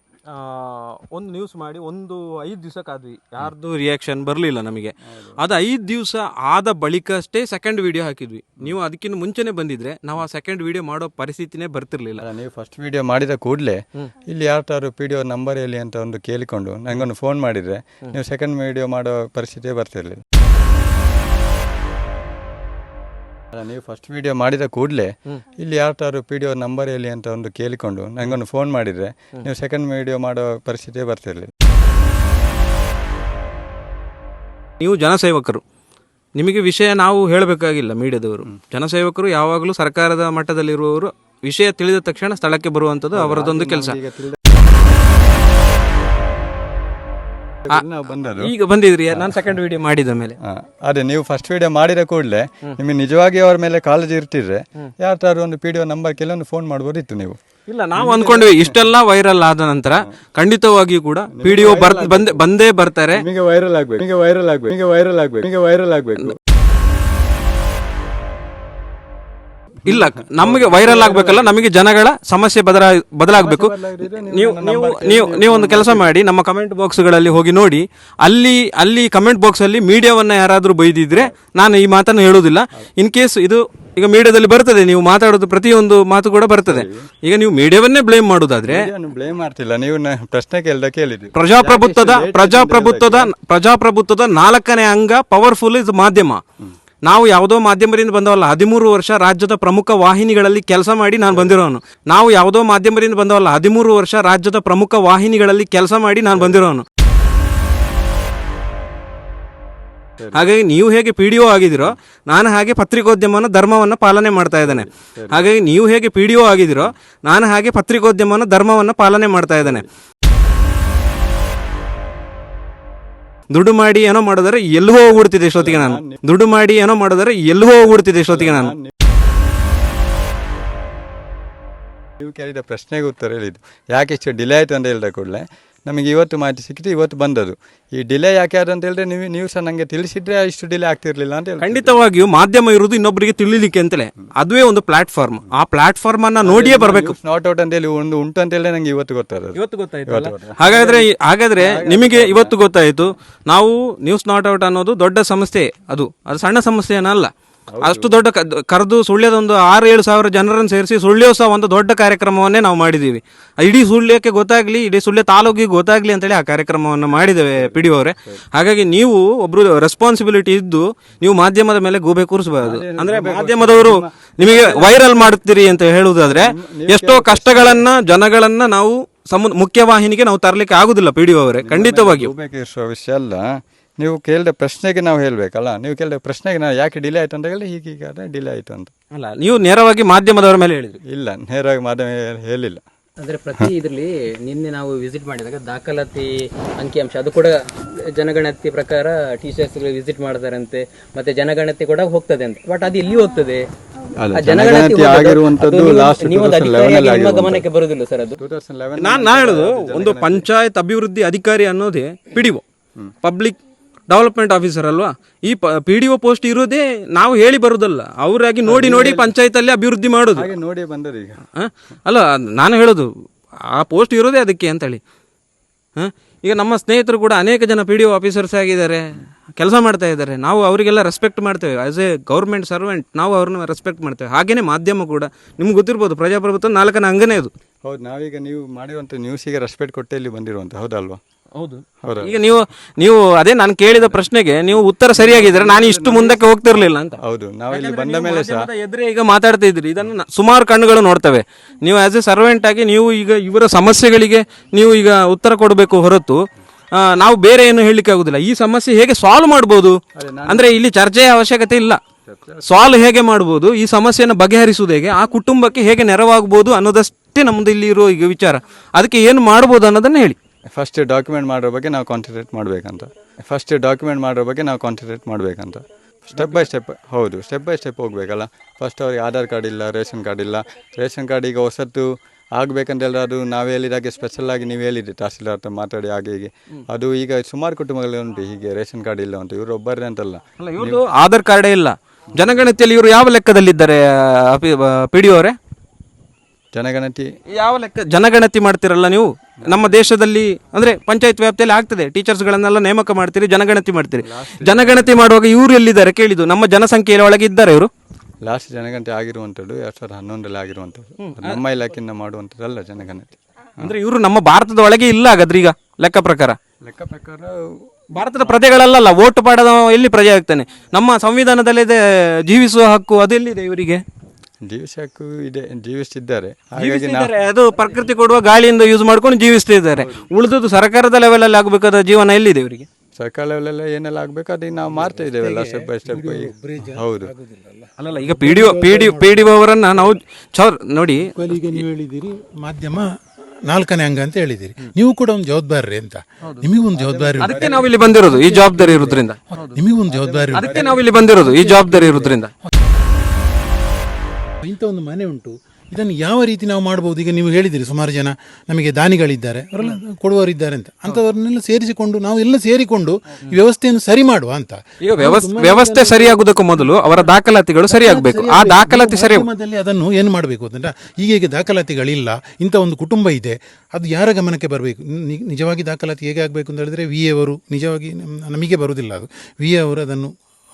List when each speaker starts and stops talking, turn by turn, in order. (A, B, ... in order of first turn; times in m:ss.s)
0:00.3-0:12.2 A
0:05.1-0:05.4 B
0:12.2-0:20.2 B
0:23.5-0:31.5 B
0:34.8-0:35.6 A
0:36.4-0:44.0 A
0:43.1-0:44.4 B
0:47.7-0:48.5 B
0:47.7-0:50.4 A
0:50.4-0:57.4 B
0:57.7-1:03.2 A
0:58.0-0:58.9 B
1:01.3-1:02.4 B
1:03.1-1:06.3 B
1:09.8-1:13.7 A
1:09.9-1:11.6 B
1:13.3-1:16.1 B
1:14.3-1:28.9 A
1:26.6-1:27.0 B
1:28.6-1:33.3 B
1:31.3-1:36.4 A
1:37.0-1:46.8 A
1:41.3-1:41.5 B
1:46.3-1:46.6 B
1:50.2-1:50.5 B
1:50.3-1:59.8 A
1:54.6-1:55.4 B
2:03.5-2:08.8 A
2:05.2-2:06.2 B
2:07.8-2:08.9 B
2:12.2-2:22.0 B
2:21.6-2:27.2 A
2:26.4-2:32.6 B
2:29.6-2:37.3 A
2:37.7-2:38.2 B
2:37.8-3:02.3 A
2:47.6-2:48.4 B
2:52.6-2:55.3 B
2:56.2-2:57.8 B
3:01.6-3:03.4 B
3:04.0-3:08.9 B
3:09.2-3:11.0 A
3:11.1-3:12.8 B
3:13.2-3:23.7 C
3:24.2-3:27.7 B
3:24.3-3:28.4 C
3:28.4-3:30.5 B
3:29.0-3:32.6 A
3:33.2-3:33.6 A
3:34.1-3:40.5 A
3:38.6-3:39.3 B
3:40.3-3:41.4 B
3:41.6-3:43.1 A
3:43.7-3:45.0 A
3:46.0-3:49.0 A
3:49.6-3:57.5 A
3:57.8-4:01.2 B
4:01.6-4:07.2 A
4:02.0-4:02.4 B
4:04.1-4:08.7 B
4:07.7-4:16.4 A
4:16.9-4:22.0 A
4:20.2-4:20.7 B
4:22.3-4:23.0 B
4:22.6-4:30.4 A
4:30.7-4:51.0 B
4:36.4-4:36.6 A
4:50.6-4:55.6 A
4:56.7-4:57.3 B
4:57.5-5:07.9 A
5:04.2-5:05.2 B
5:08.4-5:13.9 B
5:11.2-5:11.6 A
5:13.8-5:16.6 A
5:16.8-5:17.6 B
5:18.1-5:24.0 A
5:18.3-5:18.7 B
5:24.6-5:27.3 B
5:26.8-5:32.9 A
5:33.2-5:37.3 B
5:34.9-5:39.5 D
5:38.0-5:41.8 A
5:41.3-5:43.1 D
5:43.7-5:52.7 D
5:46.9-5:47.9 B
5:47.4-5:49.8 A
5:50.1-5:51.0 B
5:50.5-5:52.5 A
5:54.6-6:07.3 D
6:05.0-6:09.5 A
6:07.9-6:20.3 D